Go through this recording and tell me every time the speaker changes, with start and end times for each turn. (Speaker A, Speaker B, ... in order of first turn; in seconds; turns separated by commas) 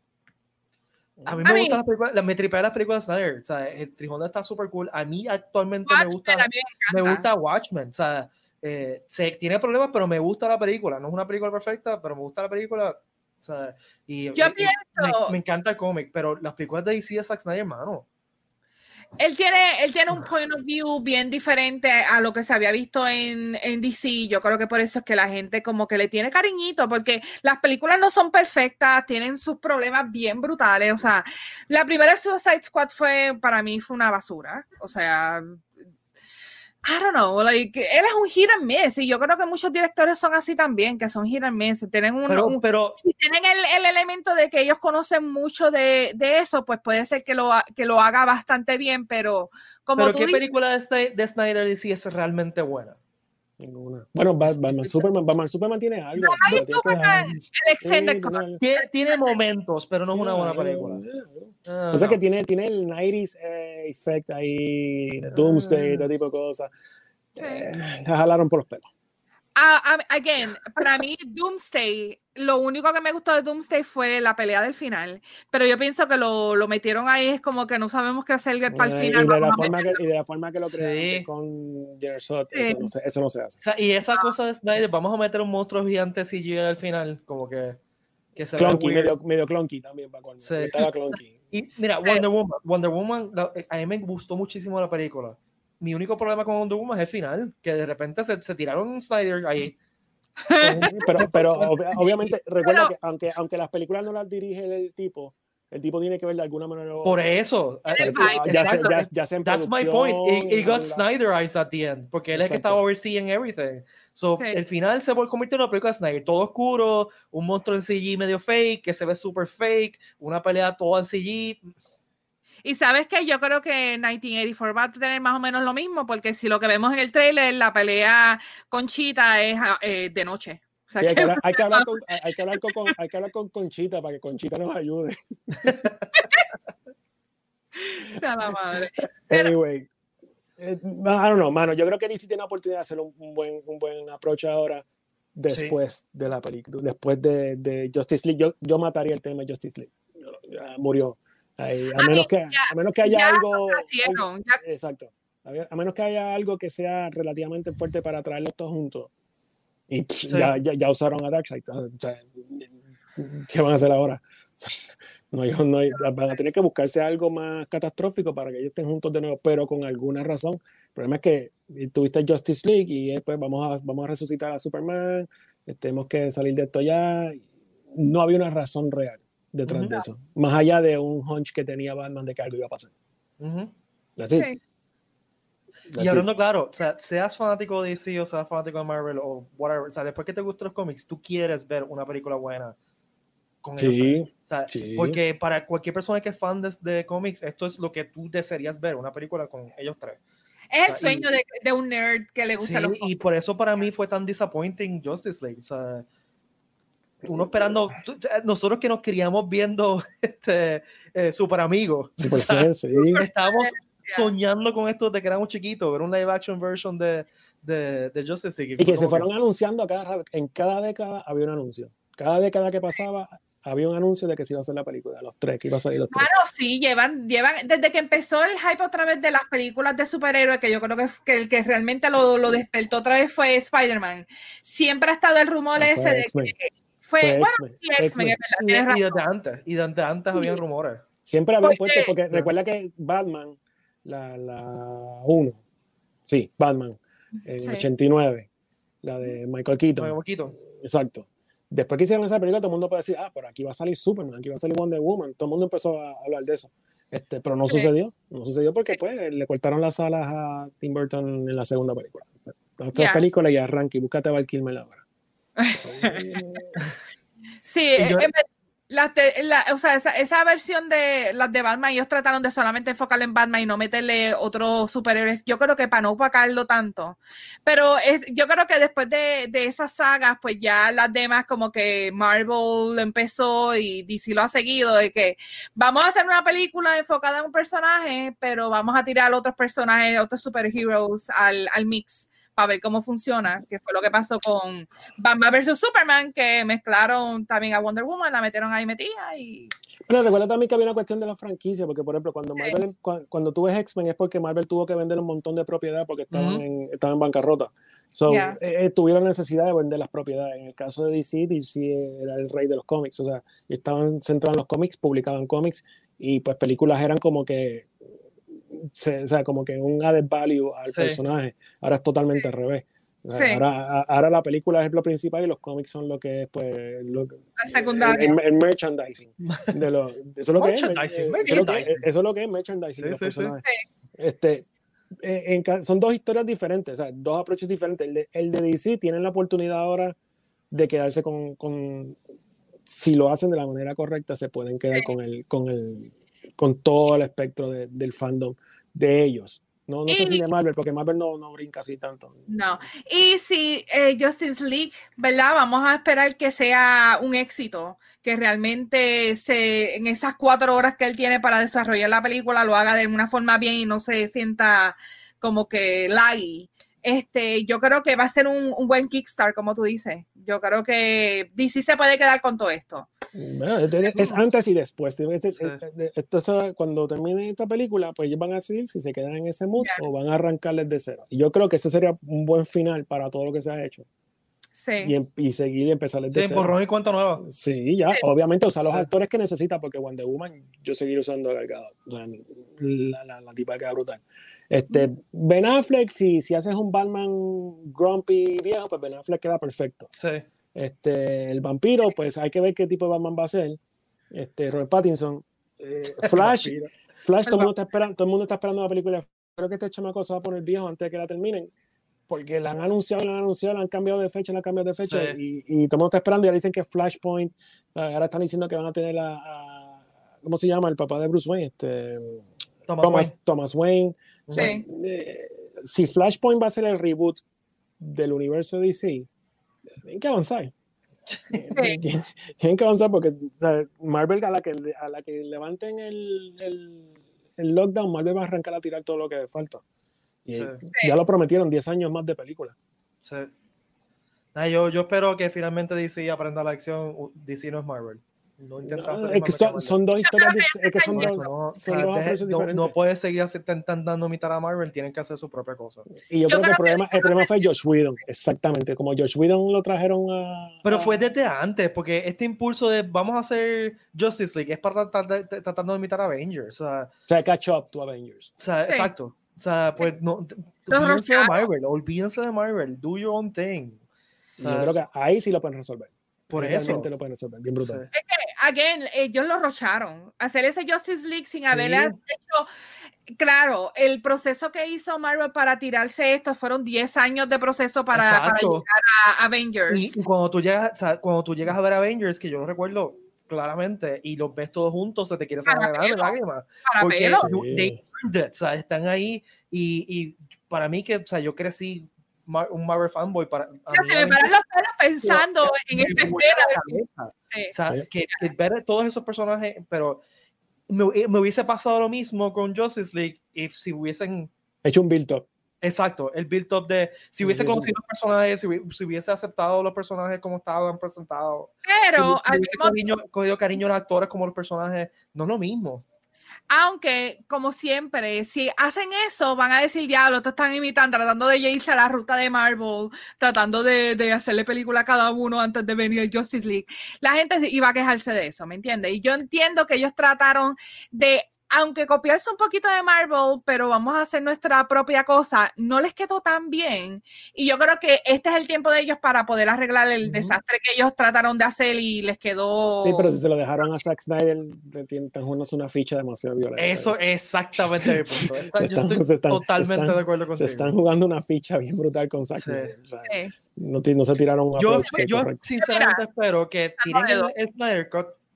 Speaker A: 1.2-1.4, Speaker B: 1.2-18.1, Speaker C: 1.4-1.8, Speaker C: 5.9-7.2, Speaker C: 14.3-15.3, Speaker C: 19.2-35.6, Speaker C: 36.8-50.4, Speaker B: 42.3-43.0, Speaker B: 50.0-53.0, Speaker A: 53.6-57.2, Speaker B: 54.4-55.1, Speaker C: 56.2-59.4, Speaker B: 56.4-57.4, Speaker A: 57.8-58.6, Speaker B: 58.6-61.0, Speaker A: 60.1-66.7, Speaker B: 61.6-62.2, Speaker B: 65.3-66.0, Speaker C: 67.4-67.7, Speaker A: 67.4-68.9, Speaker C: 69.5-80.0, Speaker A: 78.7-83.6, Speaker B: 80.6-81.3, Speaker C: 82.5-82.9, Speaker B: 83.6-87.8, Speaker B: 88.3-89.1, Speaker A: 88.6-91.3, Speaker B: 90.4-90.9, Speaker B: 91.5-99.8, Speaker C: 100.5-100.9, Speaker B: 100.6-102.3, Speaker A: 100.6-107.2, Speaker C: 102.6-102.9, Speaker B: 107.0-121.7, Speaker C: 107.9-109.0, Speaker A: 108.0-111.0, Speaker A: 112.3-112.8, Speaker C: 122.6-132.8, Speaker A: 131.0-135.9, Speaker B: 135.6-136.1, Speaker C: 136.2-136.4, Speaker C: 137.8-139.5, Speaker A: 139.3-139.9, Speaker A: 140.6-144.8, Speaker A: 145.4-159.1, Speaker B: 145.5-145.8, Speaker C: 152.0-154.6, Speaker A: 159.9-182.9, Speaker B: 160.3-160.5, Speaker B: 179.7-180.0, Speaker B: 183.4-183.7, Speaker A: 184.2-184.5, Speaker A: 185.9-186.3, Speaker B: 186.0-192.8, Speaker B: 193.6-200.2, Speaker A: 193.8-195.2, Speaker C: 200.7-203.1, Speaker B: 200.9-201.3, Speaker B: 202.6-206.1, Speaker B: 207.2-219.3, Speaker A: 212.2-213.2, Speaker C: 213.1-214.3, Speaker A: 218.8-226.3, Speaker C: 226.1-239.2, Speaker A: 235.8-236.5, Speaker A: 237.2-238.4, Speaker B: 238.6-241.0, Speaker C: 240.3-240.6, Speaker A: 241.2-245.6, Speaker C: 241.6-242.1, Speaker A: 246.3-248.5, Speaker C: 247.4-247.8, Speaker A: 249.0-250.2, Speaker B: 250.0-250.5, Speaker A: 250.7-265.0, Speaker C: 262.9-263.2, Speaker C: 265.6-266.2, Speaker A: 265.8-266.8, Speaker C: 267.6-299.7, Speaker B: 267.9-268.3, Speaker A: 300.1-317.9, Speaker B: 306.3-306.6, Speaker C: 308.3-308.6, Speaker A: 318.7-333.6, Speaker B: 320.9-321.2, Speaker C: 323.3-323.6, Speaker C: 327.6-328.4, Speaker B: 329.4-329.7, Speaker B: 330.6-332.0, Speaker C: 331.4-331.9, Speaker B: 332.9-333.5, Speaker A: 334.2-334.7, Speaker A: 335.2-340.1, Speaker A: 340.7-342.2, Speaker A: 342.9-352.5, Speaker C: 350.1-350.4, Speaker C: 352.5-373.1, Speaker A: 373.3-384.1, Speaker C: 384.8-385.1, Speaker A: 385.0-386.7, Speaker B: 386.3-387.4, Speaker A: 387.4-400.1, Speaker B: 400.1-400.4, Speaker A: 400.7-403.8, Speaker A: 404.3-411.7, Speaker B: 406.2-406.9, Speaker A: 412.3-422.4, Speaker B: 415.1-415.4, Speaker B: 422.9-423.3, Speaker A: 423.0-427.4, Speaker B: 424.5-424.7, Speaker C: 424.6-424.8, Speaker A: 428.0-429.3, Speaker A: 430.0-430.7, Speaker B: 431.3-431.6, Speaker A: 431.6-439.8, Speaker C: 431.7-432.0, Speaker A: 440.4-442.8, Speaker B: 440.5-440.8, Speaker B: 443.2-443.5, Speaker B: 444.5-450.0, Speaker A: 448.8-452.9, Speaker C: 450.2-451.5, Speaker B: 451.1-456.1, Speaker A: 456.2-461.2, Speaker C: 456.5-457.7, Speaker B: 460.8-467.1, Speaker A: 467.3-468.5, Speaker B: 468.6-474.0, Speaker C: 470.9-471.7, Speaker B: 474.6-475.0, Speaker A: 474.6-478.0, Speaker B: 476.5-477.1, Speaker B: 477.8-478.1, Speaker C: 478.1-482.7, Speaker B: 481.6-482.1, Speaker C: 483.3-490.1, Speaker B: 488.1-488.8, Speaker B: 489.9-504.5, Speaker C: 495.7-497.5, Speaker A: 497.4-498.0, Speaker C: 503.9-506.9, Speaker B: 505.2-510.2, Speaker B: 510.9-514.5, Speaker A: 514.8-515.5, Speaker B: 515.8-526.0, Speaker A: 517.4-517.9, Speaker C: 521.9-523.0, Speaker C: 526.7-553.3, Speaker B: 550.2-550.6, Speaker A: 553.0-557.2, Speaker B: 556.8-560.9, Speaker A: 557.8-565.6, Speaker B: 562.6-562.9, Speaker C: 563.2-563.5, Speaker B: 564.8-568.4, Speaker C: 565.8-566.2, Speaker C: 567.0-567.5